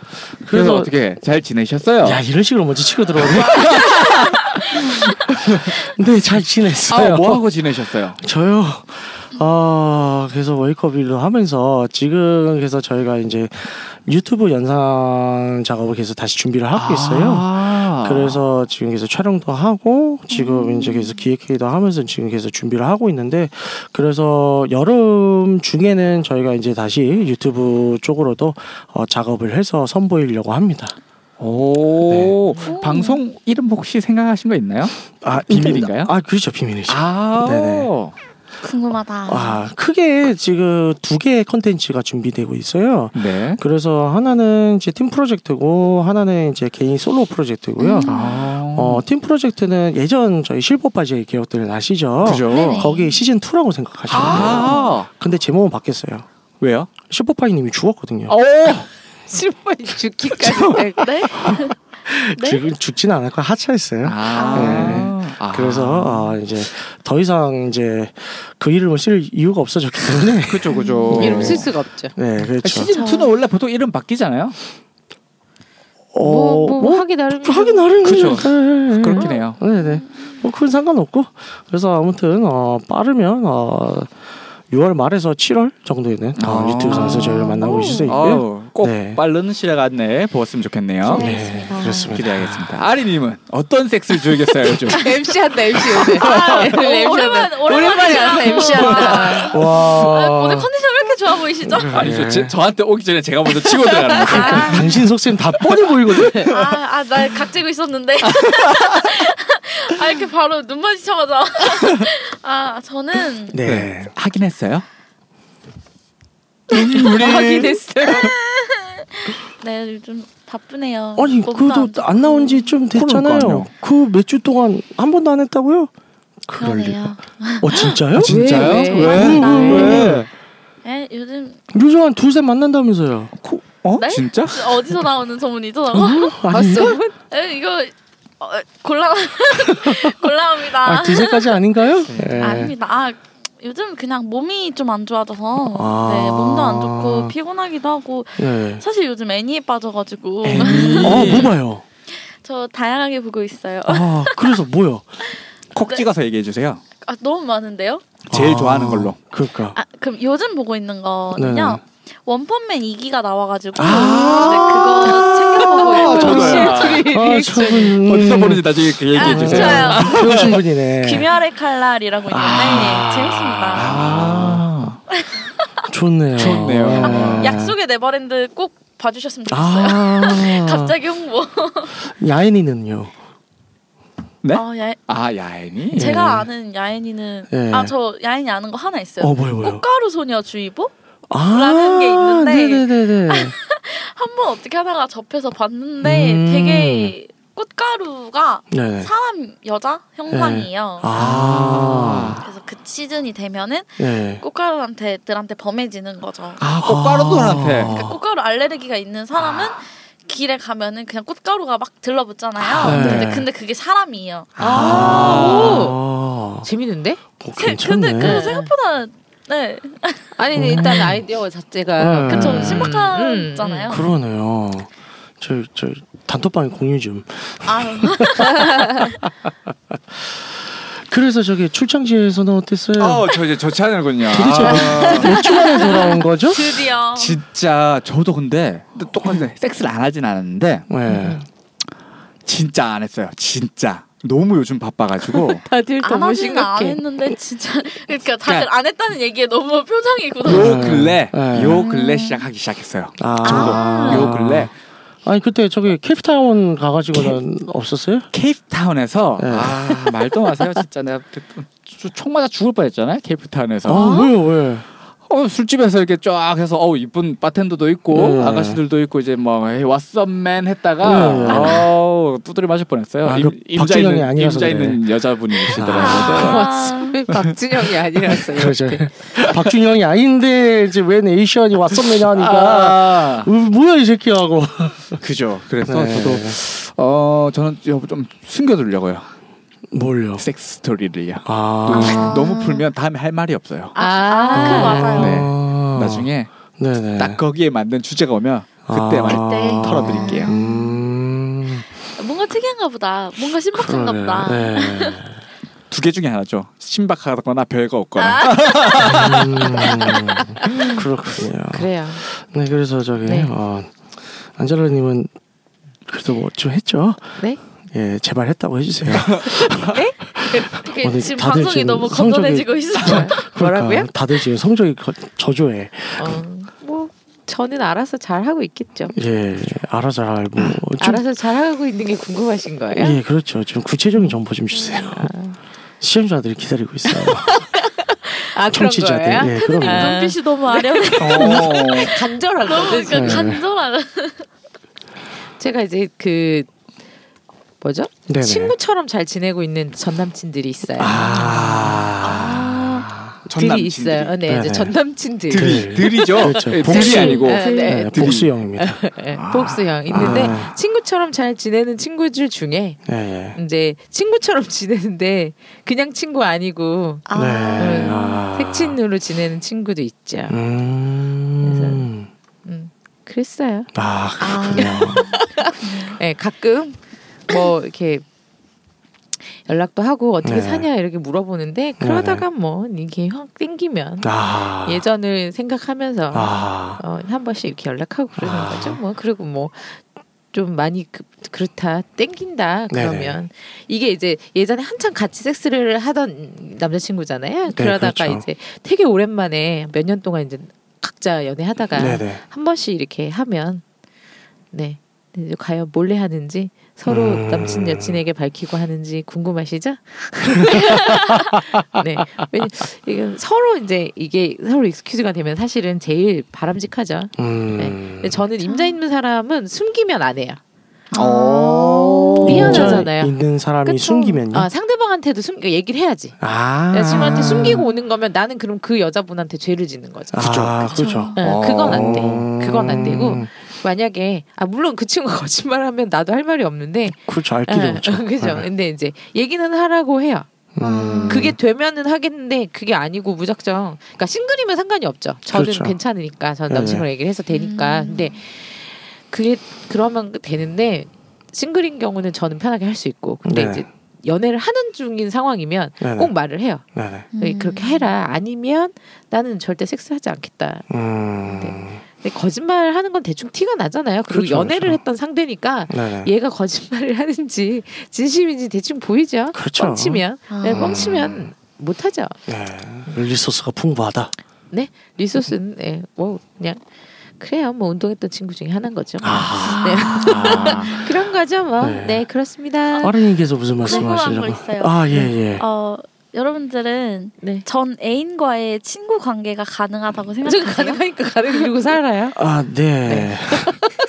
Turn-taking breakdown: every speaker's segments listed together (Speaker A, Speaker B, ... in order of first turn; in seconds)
Speaker A: 0.4-0.9, 2.0-4.0, 4.8-7.4, 8.2-30.9, 32.1-32.3, 35.2-37.9, 39.3-56.3, 57.0-58.4, 62.0-72.9, 76.1-84.1, 84.7-89.2, 91.1-92.7, 99.5-100.7, 101.6-102.5, 104.2-106.5, 113.5-114.1, 121.2-125.9, 126.5-130.3, 131.7-133.3, 135.9-137.0, 139.7-140.1, 140.7-142.7, 145.7-147.3, 148.4-148.8, 150.5-151.8, 153.9-155.1, 158.3-159.8, 161.3-161.8, 163.8-171.3, 172.3-174.7, 175.9-177.8, 179.5-180.9, 182.0-183.1, 185.9-186.5, 187.5-187.9, 189.2-189.8, 191.3-193.5, 196.0-197.1, 198.7-199.1, 200.3-202.4, 204.0-204.4, 206.8-208.2, 212.8-213.5, 214.6-216.7, 217.4-218.4, 220.5-221.2, 222.0-223.0, 223.9-224.9, 225.4-229.1, 229.9-233.4, 234.3-236.7, 240.9-241.4, 250.4-251.8, 253.2-254.7, 255.2-258.3, 259.4-260.0, 263.8-264.9, 268.1-268.8, 271.0-271.9, 273.2-275.0, 275.7-276.5, 278.5-285.2, 285.8-286.6, 289.9-290.4, 291.4-292.4, 294.5-297.4, 298.9-301.9, 303.7-305.4, 309.0-315.3, 316.1-317.4, 317.9-326.4, 329.1-331.2, 332.9-335.3, 336.0-337.6, 338.7-340.2, 343.1-343.6, 348.3-348.8, 350.9-353.4, 354.5-354.9, 355.5-359.0, 360.1-360.7, 363.1-363.6, 367.3-369.0, 370.5-372.3, 373.9-375.3, 380.4-380.9, 382.0-382.4, 384.2-385.0, 386.3-387.0, 388.4-389.0, 392.9-393.4, 397.7-398.4, 401.9-402.4, 407.1-408.2, 410.6-411.0, 417.4-418.4, 422.4-424.7, 426.4-427.9, 430.3-433.5, 437.2-438.7, 440.7-441.6, 445.5-446.0, 446.7-447.1, 453.4-453.8, 456.0-456.3, 456.9-457.3, 460.9-462.0, 464.3-465.0, 465.9-466.3, 469.5-471.4, 472.5-474.3, 479.2-480.8, 481.8-482.2, 483.0-485.6, 492.3-493.8
Speaker B: 0.5-2.2, 3.2-5.7, 6.8-8.2, 16.7-18.4, 31.4-36.1, 36.9-38.1, 43.1-43.6, 48.0-49.0, 52.2-52.9, 54.1-55.1, 56.6-56.9, 58.3-58.9, 60.4-60.8, 64.0-66.4, 70.4-71.7, 72.6-74.6, 78.0-79.6, 86.4-91.2, 92.1-95.0, 96.1-96.5, 98.7-99.3, 101.9-104.9, 108.3-108.8, 113.6-114.8, 116.7-118.3, 122.9-123.7, 128.1-130.3, 133.4-134.9, 142.1-142.6, 150.4-151.5, 155.7-156.8, 158.3-159.2, 163.8-165.1, 165.8-167.1, 167.9-170.6, 173.7-175.0, 176.3-177.6, 184.4-186.1, 201.1-202.4, 206.6-207.9, 212.6-213.3, 214.6-215.9, 233.0-235.4, 237.1-240.9, 242.4-245.6, 250.4-254.7, 258.3-264.3, 265.3-276.6, 282.1-283.5, 285.2-289.3, 290.4-293.9, 295.1-296.5, 297.2-300.5, 305.9-309.8, 319.1-319.9, 341.2-342.2, 351.5-352.5, 353.5-354.4, 355.5-358.5, 359.3-360.4, 421.2-422.9, 431.4-432.2, 480.2-480.9
Speaker C: 20.3-21.2, 32.6-33.2, 38.6-39.6, 47.8-48.4, 52.5-53.2, 54.1-55.0, 61.0-61.7, 62.3-62.6, 64.3-65.1, 70.7-71.1, 72.9-73.3, 79.2-80.4, 87.7-88.1, 91.1-92.2, 96.1-102.0, 104.3-104.8, 106.5-113.6, 118.1-122.8, 126.6-128.0, 128.7-130.1, 130.8-131.6, 134.0-136.4, 137.3-141.6, 142.4-151.5, 152.1-154.6, 157.0-158.0, 159.7-166.7, 169.1-170.4, 171.0-174.0, 175.2-175.4, 177.0-182.0, 184.5-185.0, 185.9-190.9, 191.5-201.2, 202.4-206.6, 207.8-214.6, 217.6-220.4, 222.2-224.1, 227.6-229.1, 234.7-237.4, 246.0-250.9, 251.8-252.4, 253.4-254.3, 263.9-264.3, 275.9-277.2, 291.9-292.8, 293.9-295.4, 299.3-301.0, 302.2-305.2, 308.2-311.0, 320.8-323.5, 339.4-344.5, 352.2-353.0, 356.9-358.1, 367.3-368.4, 374.4-376.2, 418.6-419.0, 421.1-423.0, 430.9-431.4, 440.8-441.5, 447.5-448.4, 457.4-458.1, 470.5-471.2, 479.6-481.1, 483.8-485.0, 485.6-491.7
Speaker D: 59.3-61.5, 71.1-72.1, 76.2-78.3, 94.9-99.6, 104.3-104.7, 116.7-118.3, 128.2-130.2, 136.5-137.1, 165.7-168.0, 214.6-216.0, 216.6-217.2, 218.2-218.7, 220.4-223.9, 241.1-241.4, 245.3-247.0, 276.1-279.1, 293.9-295.3, 310.6-311.1, 311.7-312.2, 313.2-313.5, 319.8-321.1, 323.0-324.1, 326.1-329.1, 330.7-333.2, 334.2-335.6, 337.1-343.6, 345.6-346.7, 347.8-352.0, 353.4-363.0, 363.5-367.2, 367.8-370.6, 371.6-372.1, 372.6-373.9, 374.7-378.2, 379.5-390.0, 390.5-403.8, 404.7-420.6, 422.4-426.4, 426.9-440.5, 441.3-456.8, 457.4-460.9, 461.5-472.3, 474.7-476.8, 477.4-483.1, 483.9-484.4, 487.4-487.6, 490.4-492.4, 493.1-493.9